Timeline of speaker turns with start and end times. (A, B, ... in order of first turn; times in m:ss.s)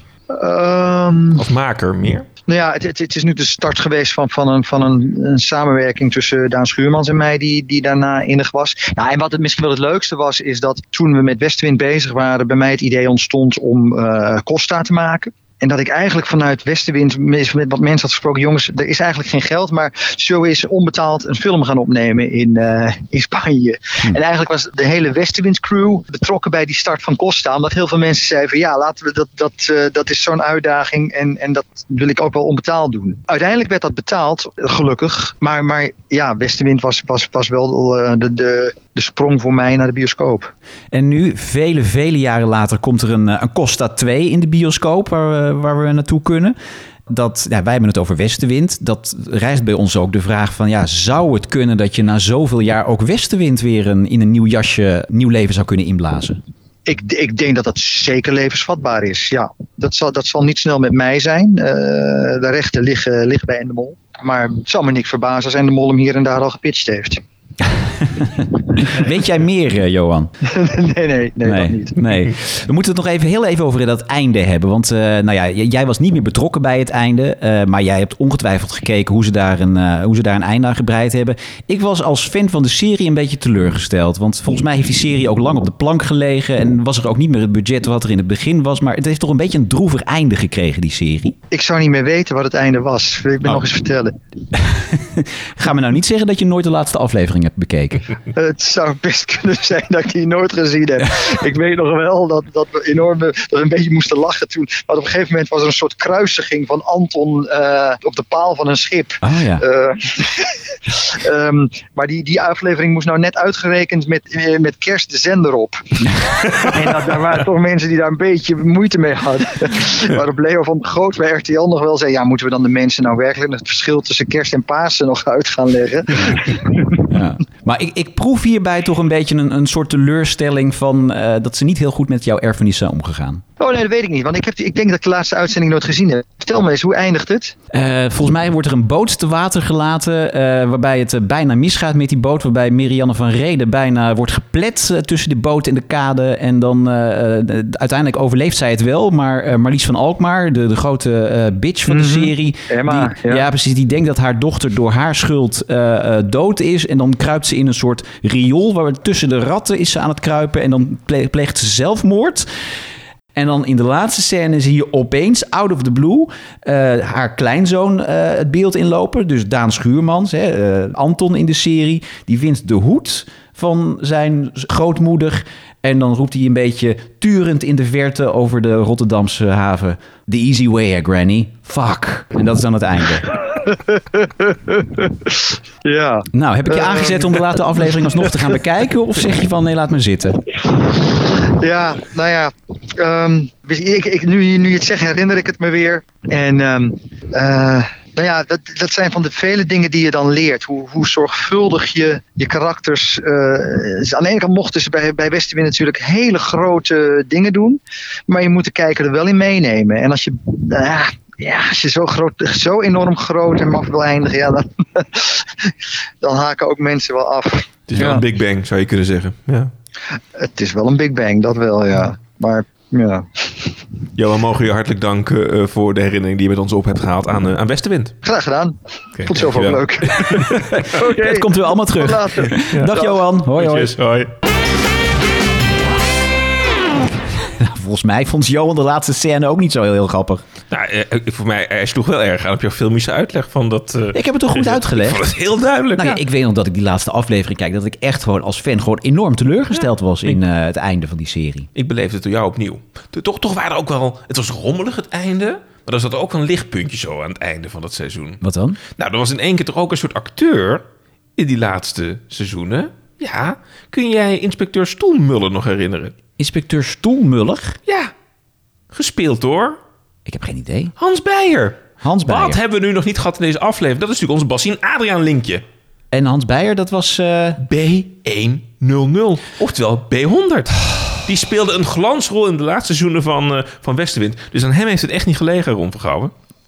0:00.3-0:01.5 A
0:01.4-0:02.3 B
0:02.5-0:40.5 A
0:40.9-0:46.6 C
0:47.1-0:56.4 C
0:56.9-1:07.2 A
1:08.1-1:10.3 C
1:08.8-1:09.1 A
1:10.5-1:12.0 A
1:11.4-1:31.4 C
1:31.5-1:34.1 A
1:34.6-1:38.1 C
1:38.3-1:55.8 A
1:49.2-1:49.6 C
1:56.3-2:07.0 A
2:07.1-2:13.4 C
2:13.6-2:17.6 A
2:17.7-2:42.4 C
2:31.9-2:33.5 A
2:43.4-3:03.3 C
3:03.5-3:08.6 A
3:06.3-3:10.4 C
3:10.9-3:38.2 A
3:37.9-3:39.7 B
3:40.4-3:43.8 A
3:44.2-3:48.1 B
3:48.2-3:53.2 A
3:49.2-3:50.4 B
3:50.3-3:54.0 C
3:52.7-3:54.3 B
3:57.6-4:00.4 C
4:00.7-4:06.2 B
4:04.1-4:05.2 C
4:06.0-4:11.7 C
4:11.7-4:20.8 B
4:18.4-4:18.8 C
4:21.4-4:26.2 B
4:26.4-4:27.8 C
4:27.9-4:28.1 B
4:28.9-4:29.8 B
4:30.3-4:30.9 C
4:31.0-4:35.6 B
4:32.0-4:32.6 C
4:36.1-4:37.6 C
4:37.6-4:46.3 B